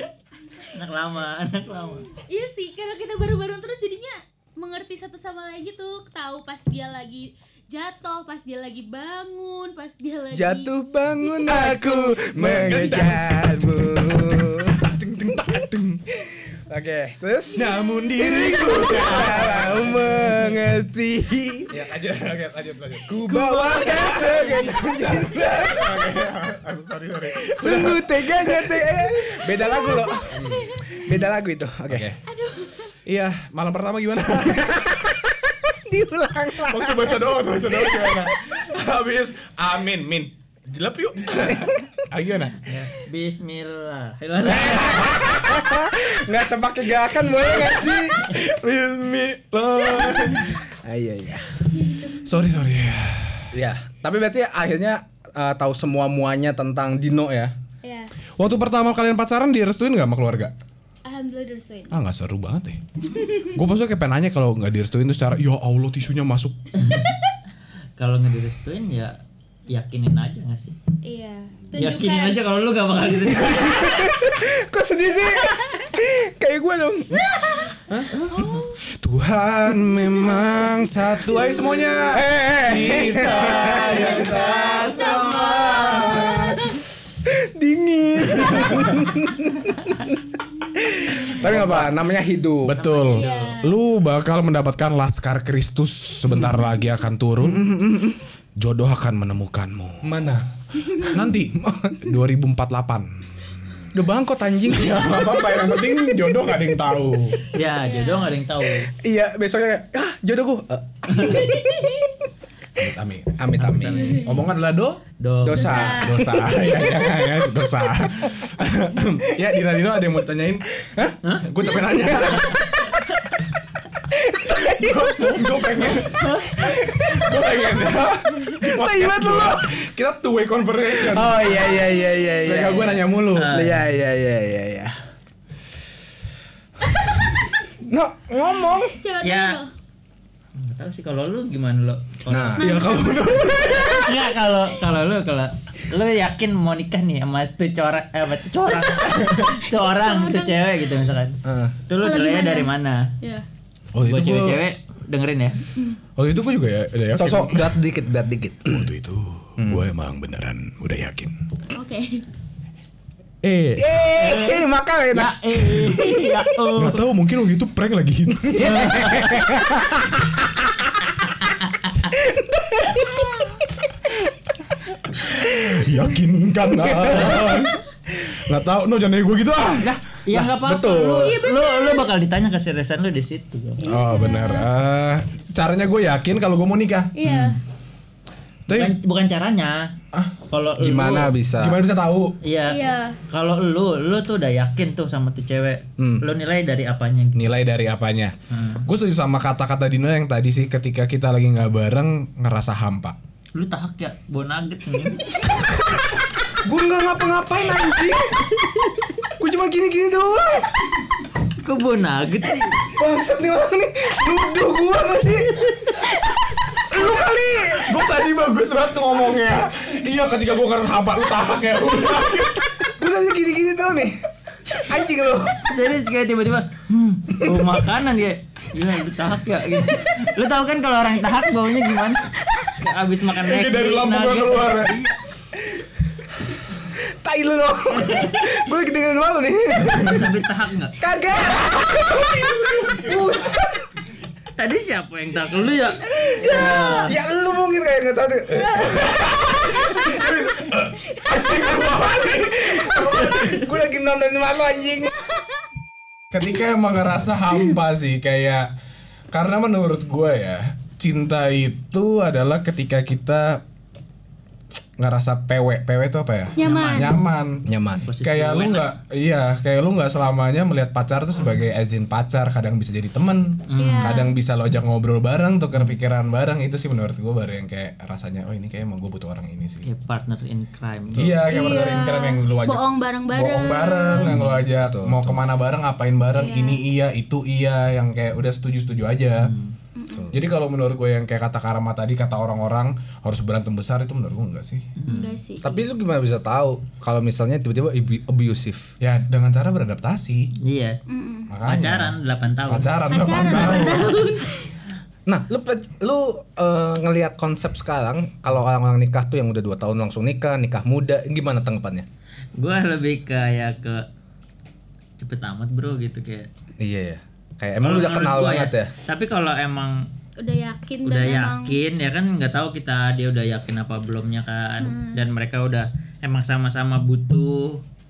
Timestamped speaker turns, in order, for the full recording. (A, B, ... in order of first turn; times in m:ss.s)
0:00.7-0:02.1 A
0:02.3-0:11.7 B
0:10.3-0:22.0 C
0:11.4-0:16.0 D
0:17.5-0:20.6 D
0:17.6-0:19.4 B
0:21.7-0:29.2 D
0:23.0-0:26.4 C
0:23.9-0:24.8 B
0:23.9-0:24.2 A
0:27.3-0:32.2 C
0:29.5-0:31.2 B
0:30.3-0:30.7 D
0:31.9-0:32.2 D
0:32.3-0:33.0 B
0:33.0-0:35.0 D
0:34.4-0:38.4 C
0:36.6-0:42.7 D
0:41.5-0:41.9 C
0:42.6-0:45.2 A
0:44.5-0:45.9 D
0:44.8-0:48.4 C
0:47.6-0:50.6 D
0:49.9-0:51.6 C
0:51.8-0:52.2 B
0:52.2-0:53.5 D
0:53.5-0:57.5 C
0:57.8-0:58.1 B
0:58.4-1:00.5 D
1:01.0-1:02.0 B
1:01.9-1:02.8 D
1:03.1-1:03.5 B
1:03.4-1:06.6 D
1:06.8-1:07.1 A
1:08.0-1:10.8 A
1:11.0-1:12.4 B
1:11.8-1:14.1 A
1:13.3-1:13.7 D
1:13.5-1:17.3 C
1:17.2-1:17.8 B
1:17.9-1:18.2 D
1:18.1-1:18.6 A
1:18.4-1:18.8 B
1:18.8-1:26.7 D
1:20.2-1:29.7 C
1:22.9-1:26.4 A
1:23.8-1:26.8 B
1:28.2-1:29.1 D
1:30.8-1:32.9 C
1:31.3-1:32.0 D
1:32.6-1:37.7 D
1:32.8-1:33.6 A
1:33.1-1:33.7 B
1:37.4-1:38.2 C
1:38.6-1:40.1 D
1:40.0-1:40.4 C
1:41.0-1:43.9 D
1:41.5-1:42.1 C
1:43.9-1:45.4 C
1:44.6-1:47.4 D
1:45.5-1:45.9 B
1:47.5-1:48.9 A
1:47.8-1:48.4 B
1:48.9-1:52.2 C
1:51.1-1:51.5 A
1:52.8-1:55.0 D
1:53.4-1:54.2 C
1:53.6-1:54.4 A
1:54.0-1:54.4 B
1:55.2-1:55.9 A
1:55.4-1:57.7 C
1:55.5-1:56.5 B
1:55.7-2:02.8 D
2:01.7-2:02.6 C
2:04.1-2:05.6 C
2:04.6-2:11.8 D
2:06.2-2:06.6 A
2:06.6-2:07.3 C
2:08.6-2:09.9 C
2:10.9-2:14.9 C
2:11.7-2:12.4 B
2:12.4-2:13.7 D
2:13.3-2:13.8 A
2:17.8-2:19.0 C
2:18.7-2:19.7 B
2:19.2-2:19.6 A
2:20.6-2:22.6 A
2:22.3-2:22.7 C
2:22.6-2:24.0 B
2:22.6-2:24.1 D
2:23.8-2:33.1 A
2:29.3-2:30.6 B
2:31.4-2:31.8 C
2:32.0-2:33.4 B
2:33.9-2:34.6 D
2:34.0-2:35.6 A
2:36.2-2:37.8 D
2:37.1-2:38.9 C
2:38.7-2:41.4 D
2:39.6-2:39.9 C
2:41.7-2:42.2 B
2:43.4-2:44.4 D
2:43.8-2:46.1 C
2:44.2-2:47.0 A
2:46.8-2:50.0 D
2:48.3-2:51.3 C
2:48.6-2:49.4 A
2:52.0-2:53.5 C
2:55.1-3:00.5 D
2:56.7-2:57.7 C
2:57.2-2:57.5 A
2:59.8-3:03.9 A
3:00.4-3:01.4 C
3:01.2-3:02.1 B
3:03.8-3:04.7 B
3:03.8-3:07.1 D
3:07.2-3:07.6 B
3:07.2-3:07.6 A
3:08.7-3:08.9 D
3:08.7-3:10.0 A
3:10.5-3:11.3 A
3:10.8-3:11.8 C
3:11.6-3:12.4 D
3:12.4-3:17.5 A
3:12.7-3:13.2 B
3:16.0-3:16.2 C
3:17.4-3:18.4 D
3:18.5-3:18.9 A
3:18.9-3:23.2 D
3:23.6-3:25.5 A
3:26.6-3:28.5 C
3:29.4-3:30.7 C
3:31.6-3:32.9 A
3:32.8-3:35.6 C
3:36.9-3:37.9 C
3:36.9-3:42.9 D
3:43.0-3:44.2 C
3:44.7-3:45.7 C
3:45.6-3:55.2 A
3:53.4-3:54.9 D
3:56.9-4:00.3 C
3:59.9-4:01.0 A
4:01.0-4:03.9 C
4:01.7-4:02.5 D
4:04.6-4:07.2 A
4:06.1-4:10.4 C
4:06.6-4:07.1 B
4:08.6-4:13.7 D
4:12.6-4:15.4 C
4:16.3-4:18.7 D
4:19.3-4:23.6 D
4:25.0-4:27.7 D
4:26.6-4:27.2 B
4:26.6-4:27.2 A
4:27.7-4:28.1 C
4:28.0-4:29.0 A
4:28.2-4:39.9 D
4:33.7-4:34.2 A
4:33.8-4:34.4 B
4:39.8-4:41.5 A
4:41.2-4:49.5 D
4:41.5-4:44.4 B
4:44.3-4:44.6 A
4:44.4-4:45.4 C
4:46.3-4:46.8 B
4:49.4-4:49.8 A
4:50.0-4:50.3 B
4:50.1-4:50.4 C
4:50.3-4:54.9 D
4:55.0-4:55.4 A
4:55.1-4:55.8 B
4:55.6-4:58.9 C
4:59.0-5:00.5 D
5:00.6-5:01.0 A
5:01.1-5:01.5 B
5:01.5-5:04.3 D
5:01.6-5:03.0 A
5:03.1-5:04.7 B
5:05.3-5:12.1 C
5:12.6-5:14.1 A
5:15.2-5:16.5 A
5:16.8-5:18.9 C
5:17.8-5:20.1 A
5:20.4-5:21.8 B
5:21.1-5:27.8 A
5:24.8-5:25.2 B